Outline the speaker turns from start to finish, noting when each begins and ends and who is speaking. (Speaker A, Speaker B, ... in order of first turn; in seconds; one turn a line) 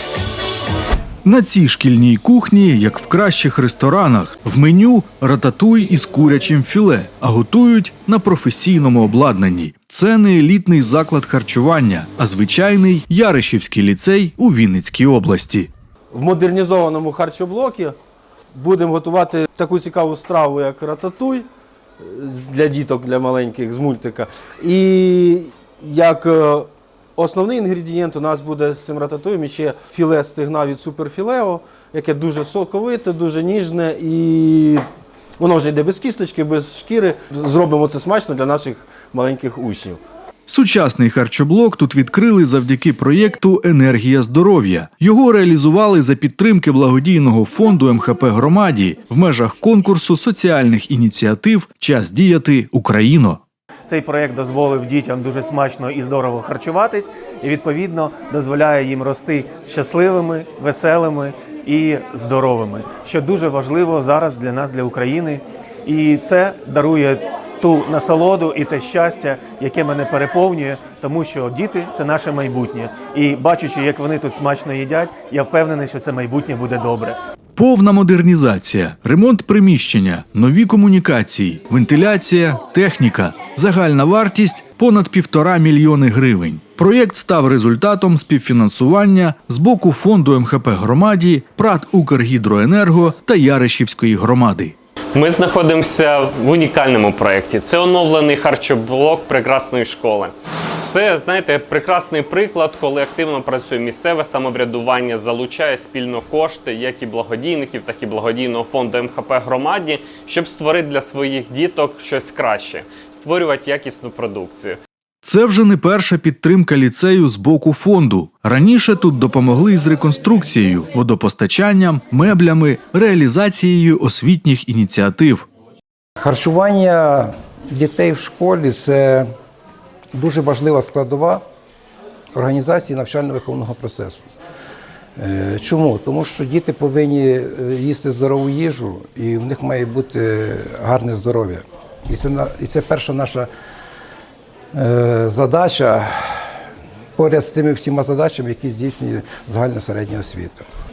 Speaker A: 1.2-15.7
Speaker B: 16.1-17.9
Speaker B: 18.5-21.5
Speaker B: 22.0-34.8
Speaker B: 35.4-40.0
Speaker A: 40.5-53.4
Speaker C: 53.9-77.2
Speaker A: 77.5-94.8
Speaker D: 95.1-100.3
Speaker D: 100.9-114.8
Speaker A: 115.2-125.5
Speaker E: 126.2-129.3
Speaker E: 130.2-131.4
Speaker E: 132.3-134.2
Speaker E: 135.2-143.5
Speaker E: 144.7-146.3
Speaker E: 147.2-150.7